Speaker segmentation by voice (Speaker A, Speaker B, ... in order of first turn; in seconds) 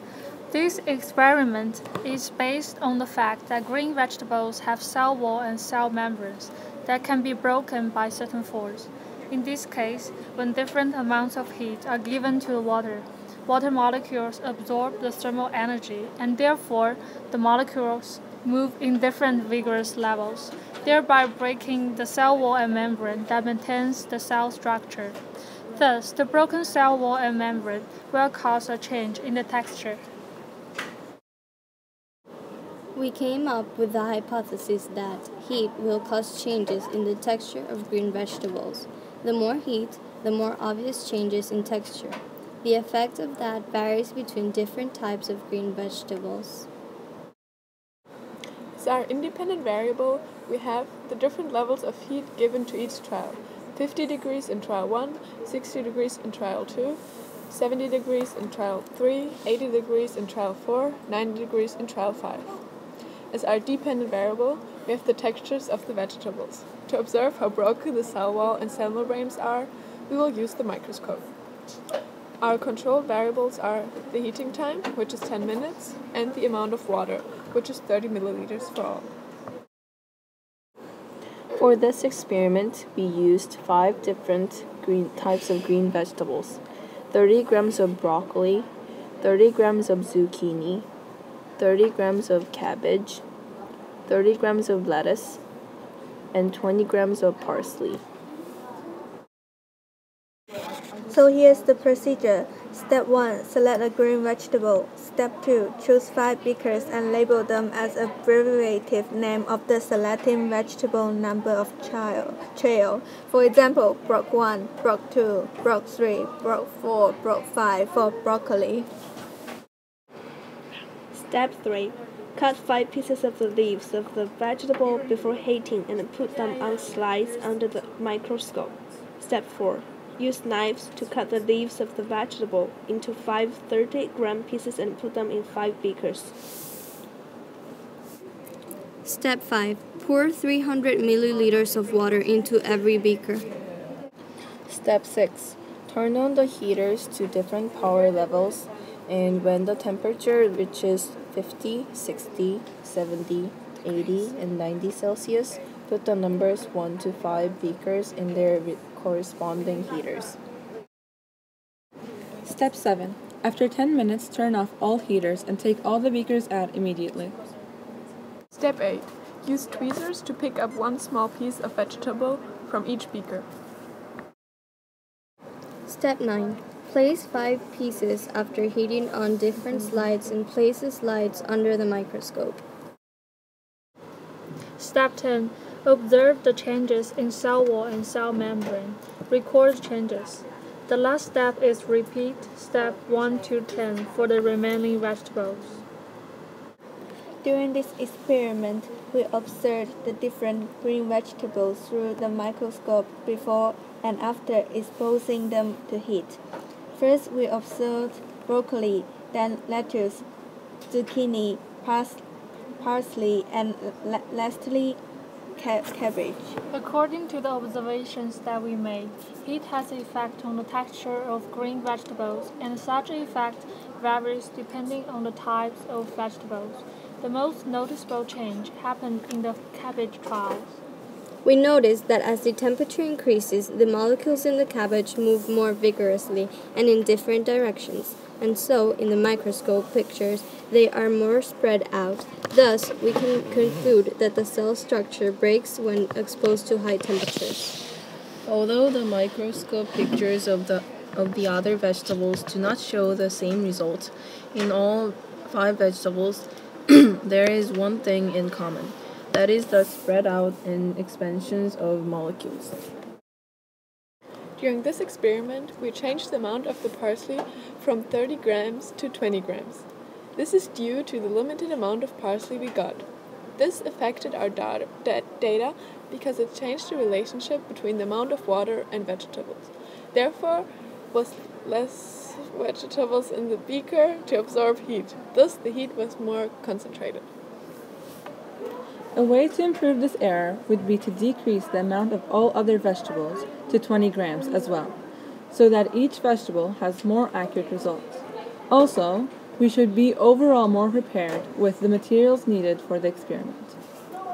Speaker A: 0.5-25.2, 25.8-30.0, 184.8-195.8, 216.7-230.8
Speaker B: 32.9-46.7, 139.1-143.5, 175.9-182.6, 231.4-247.8
Speaker C: 48.8-62.5, 63.3-71.3, 72.4-79.1, 168.5-173.5, 264.6-269.9, 270.4-273.1, 273.6-287.3
Speaker D: 81.6-86.6, 87.1-88.7, 89.2-90.9, 91.6-93.2, 94.1-95.4, 96.3-98.0, 144.7-160.4, 248.5-262.8
Speaker E: 101.1-118.9, 197.4-206.4, 207.0-210.2, 210.9-212.2, 212.8-215.0, 215.6-216.6
Speaker F: 121.1-136.3
Speaker G: 162.4-167.4, 289.1-295.0, 295.5-303.8